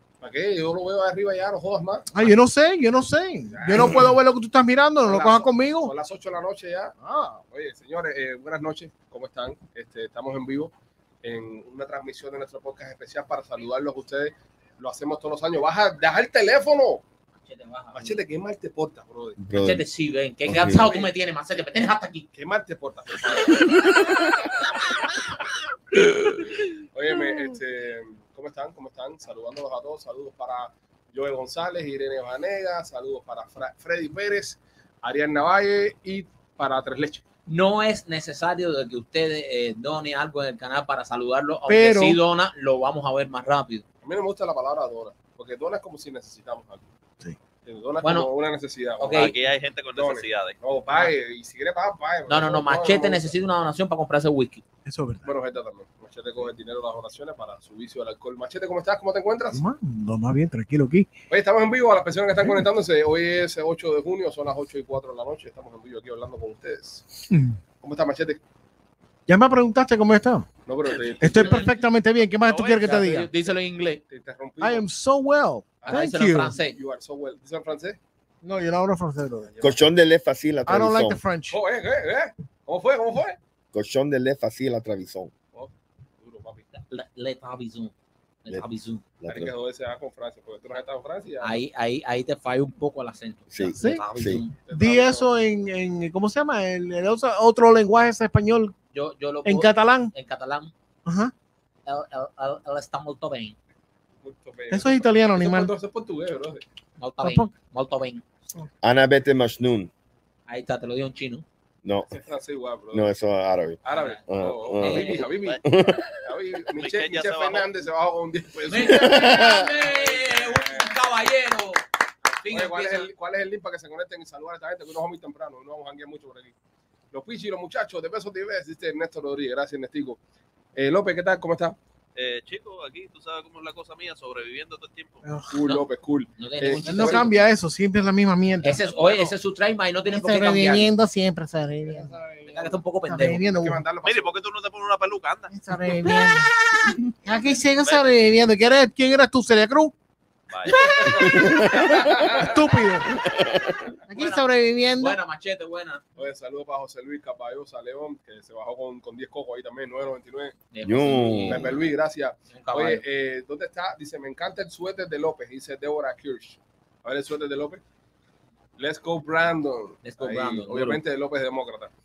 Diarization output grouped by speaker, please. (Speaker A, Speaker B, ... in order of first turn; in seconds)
Speaker A: 0.2-2.3, 3.5-4.1, 5.0-6.9, 7.5-10.7, 11.2-17.0, 17.9-19.4, 20.8-21.0, 22.3-23.9, 26.2-37.2, 44.0-46.9, 47.6-49.4, 49.9-53.3, 55.2-59.6, 61.3-67.0, 67.8-68.4, 70.7-71.6, 74.1-74.8, 75.8-78.0, 79.5-79.8, 81.5-83.4, 85.5-86.7, 89.3-91.6, 94.6-95.3, 104.2-106.6, 112.1-113.1, 113.8-115.6, 116.2-120.9, 122.5-126.5, 127.1-130.2, 130.7-131.8, 135.5-137.3, 143.6-144.4, 150.8-152.4, 156.2-160.5, 161.4-167.8, 168.8-171.9
Speaker B: 2.1-5.9, 7.0-7.4, 41.7-42.2, 54.9-55.3, 59.5-61.1, 67.3-67.6, 69.3-70.5, 71.2-73.3, 74.6-76.5, 78.4-79.5, 80.7-81.6, 93.7-94.0, 94.7-98.7, 99.4-100.1, 101.0-101.3, 104.7-105.7, 107.2-107.5, 135.2-135.5, 136.8-138.8, 140.1-142.1, 143.1-143.8, 145.5-146.5, 147.1-149.9, 152.3-153.2, 154.1-155.2
Speaker C: 17.4-18.2, 19.6-22.3, 37.5-43.8, 48.0-48.3, 49.0-49.3, 52.3-54.6, 71.3-71.7, 72.4-74.0, 75.9-76.8, 86.7-87.9, 88.4-89.0, 91.4-94.5, 98.9-100.7, 101.8-103.5, 107.0-108.2, 110.5-111.4, 113.9-114.2, 114.8-115.3, 118.7-123.1, 136.4-137.3, 138.6-140.9, 142.4-143.4, 154.1-156.0, 160.7-161.8, 162.5-163.0, 170.0-171.0
Speaker D: 19.4-19.8, 20.4-21.0, 79.6-81.2, 83.7-85.3, 89.2-89.5, 93.5-94.4, 108.8-109.9, 112.9-115.1, 115.6-116.0, 118.8-119.7, 151.1-152.1, 153.3-153.7, 160.8-161.7
Speaker E: 49.1-50.6, 116.8-117.7, 132.2-135.2, 138.9-139.3, 144.0-145.5, 147.6-148.5, 150.5-151.2